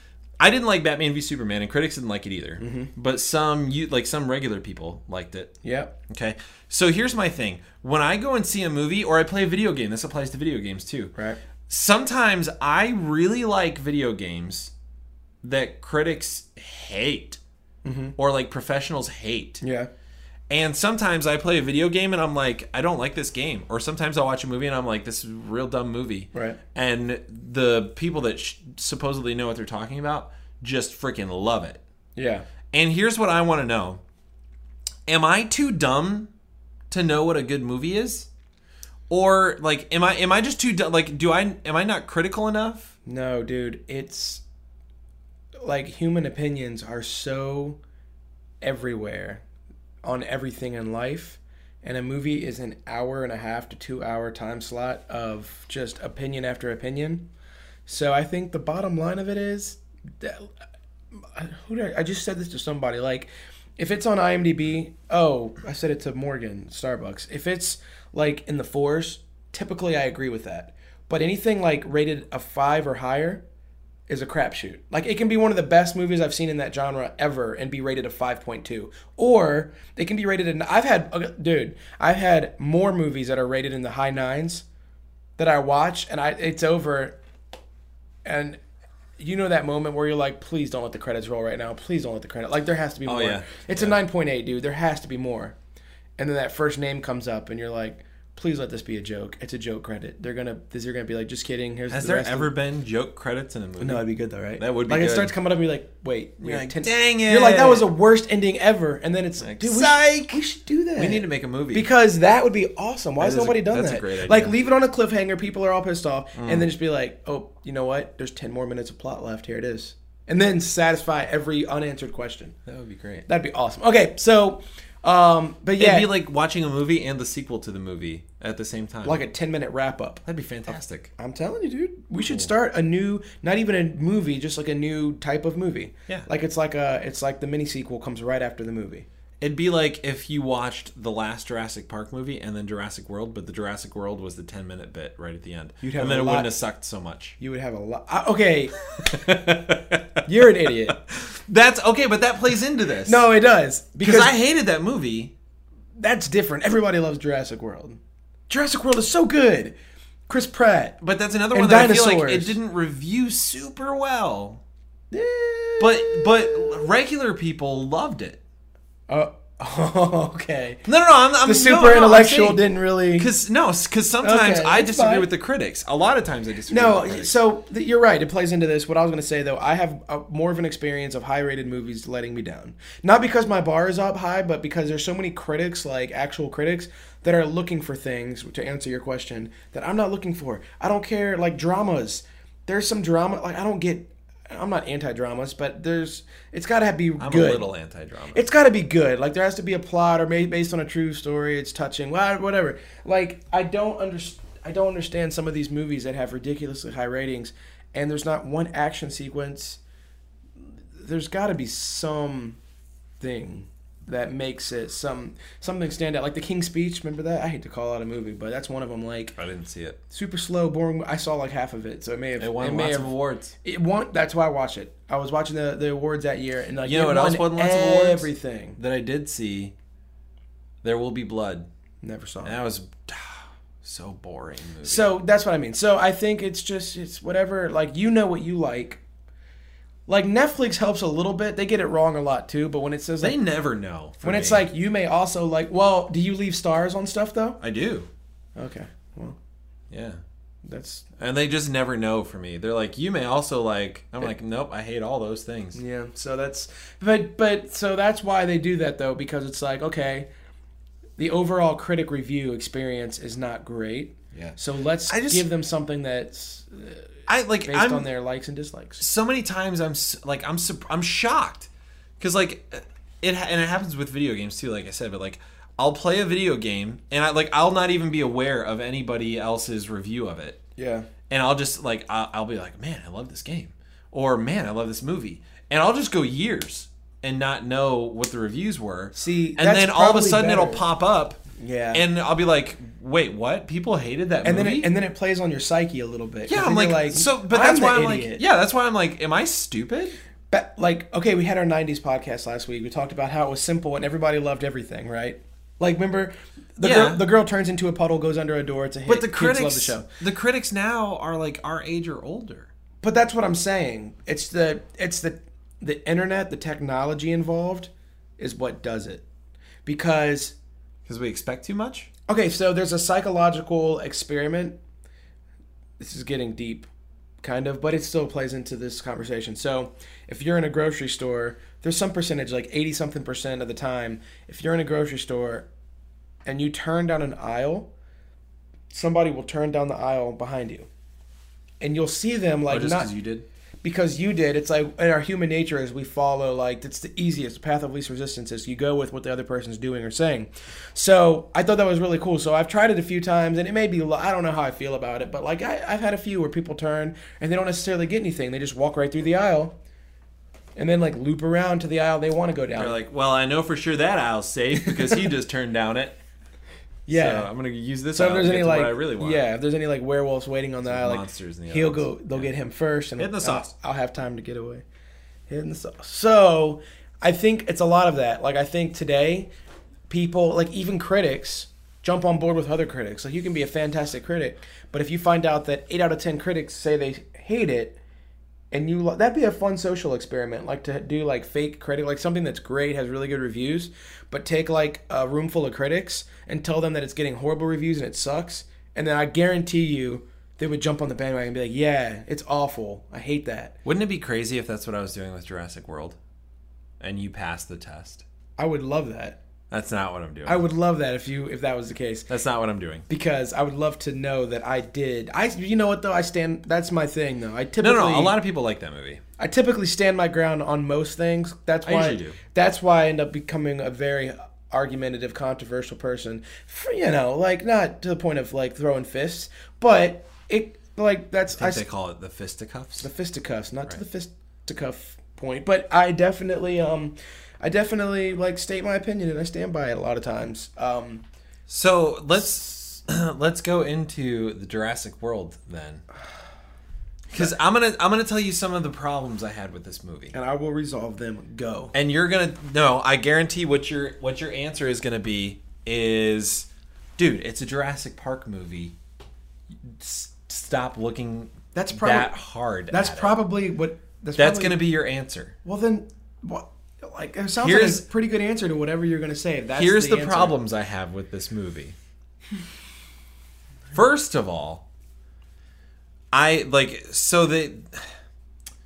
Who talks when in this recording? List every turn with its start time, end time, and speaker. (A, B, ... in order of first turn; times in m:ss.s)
0:00.4-0:05.5 A
0:02.6-0:02.9 B
0:05.6-0:05.9 B
0:06.1-0:11.1 A
0:11.7-0:14.7 A
0:15.4-0:17.4 A
0:17.8-0:18.2 B
0:18.2-0:19.6 A
0:19.6-0:19.9 B
0:20.5-0:31.8 A
0:26.3-0:26.6 B
0:32.2-0:32.4 B
0:32.7-0:34.0 A
0:35.1-0:36.3 A
0:36.9-0:38.3 A
0:39.1-0:42.9 A
0:43.0-0:44.4 B
0:45.6-0:47.8 B
0:48.6-0:49.4 B
0:50.0-0:57.2 B
0:57.9-1:00.5 B
1:01.2-1:13.4 B
1:14.1-1:24.6 B
1:25.4-1:27.2 B
1:28.2-1:28.6 B
1:29.2-1:35.6 B
1:33.0-1:34.0 A
1:36.2-1:42.5 B
1:41.9-1:44.0 A
1:43.8-2:02.6 B
1:44.6-1:45.3 A
1:46.4-1:47.9 A
1:49.4-1:50.4 A
1:51.0-1:51.9 A
1:53.2-1:54.5 A
1:56.3-1:56.7 A
2:02.7-2:03.2 A
2:03.3-2:06.1 B
2:05.8-2:09.2 A
2:09.0-2:10.2 B
2:10.2-2:11.1 A
2:11.2-2:19.0 B
2:19.4-2:27.4 A
2:25.8-2:26.5 B
2:27.4-2:29.4 B
2:29.0-2:33.2 A
2:30.2-2:31.0 B
2:33.0-2:34.3 B
2:34.0-2:35.3 A
2:36.0-2:39.7 B
2:40.3-2:41.0 B
2:41.0-2:44.6 A
2:41.5-2:42.6 B
2:45.1-2:46.9 B
2:45.8-2:48.4 A
2:49.1-2:50.8 B
2:50.8-2:52.6 A
2:51.4-2:53.3 B
2:53.2-2:57.4 A
2:54.2-2:55.3 B
2:56.7-3:17.7 B
3:17.2-3:18.4 A
3:18.3-3:29.8 B
3:30.9-3:32.6 B
3:33.2-3:39.4 B
3:39.4-3:40.0 A
3:40.1-3:48.8 B
3:42.4-3:43.5 A
3:46.8-3:49.7 A
3:50.8-3:51.7 A
3:52.0-3:52.6 B
3:52.4-3:55.1 A
3:54.8-3:59.0 B
4:00.1-4:03.4 B
4:03.2-4:04.6 A
4:04.2-4:07.6 B
4:07.6-4:08.1 A
4:08.6-4:09.4 B
4:09.9-4:10.2 A
4:10.6-4:11.0 B
4:11.2-4:15.8 A
4:15.7-4:20.3 B
4:21.2-4:27.1 B
4:24.3-4:25.5 A
4:27.3-4:28.1 A
4:27.6-4:29.0 B
4:29.0-4:31.7 A
4:32.2-4:40.6 A
4:40.8-4:41.1 B
4:41.3-4:51.4 A
4:49.1-4:50.8 B
4:51.6-4:52.0 B
4:51.9-4:54.9 A
4:54.4-4:58.4 B
4:56.5-5:00.2 A
5:00.5-5:10.0 B
5:06.8-5:07.2 A
5:09.1-5:12.7 A
5:13.0-5:19.2 B
5:19.8-5:20.5 B
5:21.0-5:22.1 A
5:22.3-5:24.8 B
5:26.0-5:26.9 B
5:27.4-5:35.7 B
5:36.4-5:37.9 B
5:38.9-5:40.9 B
5:41.8-5:43.1 B
5:42.7-5:43.4 A
5:43.8-5:59.7 B
6:00.8-6:03.0 B
6:02.8-6:06.2 A
6:04.8-6:05.3 B
6:07.1-6:07.5 B
6:07.1-6:09.4 A
6:08.1-6:14.8 B
6:10.8-6:12.5 A
6:13.2-6:13.7 A
6:15.5-6:19.5 B
6:20.1-6:28.0 B
6:28.7-6:43.8 B
6:43.8-6:46.2 A
6:47.0-6:48.2 A
6:48.6-6:49.4 B
6:49.7-6:50.6 A
6:50.4-6:52.3 B
6:52.3-6:53.0 A
6:53.1-6:58.3 B
6:57.8-6:59.2 A
6:59.4-7:11.8 B
7:01.8-7:02.4 A
7:11.5-7:13.1 A
7:13.0-7:21.2 B
7:21.7-7:26.0 A
7:27.3-7:30.3 A
7:30.3-7:31.9 B
7:31.9-7:38.9 A
7:39.9-7:43.4 A
7:41.7-7:42.3 B
7:42.9-7:44.8 B
7:44.4-7:45.5 A
7:45.6-7:50.6 B
7:47.6-7:48.0 A
7:49.7-7:52.0 A
7:53.9-7:54.8 A
7:56.3-7:58.2 A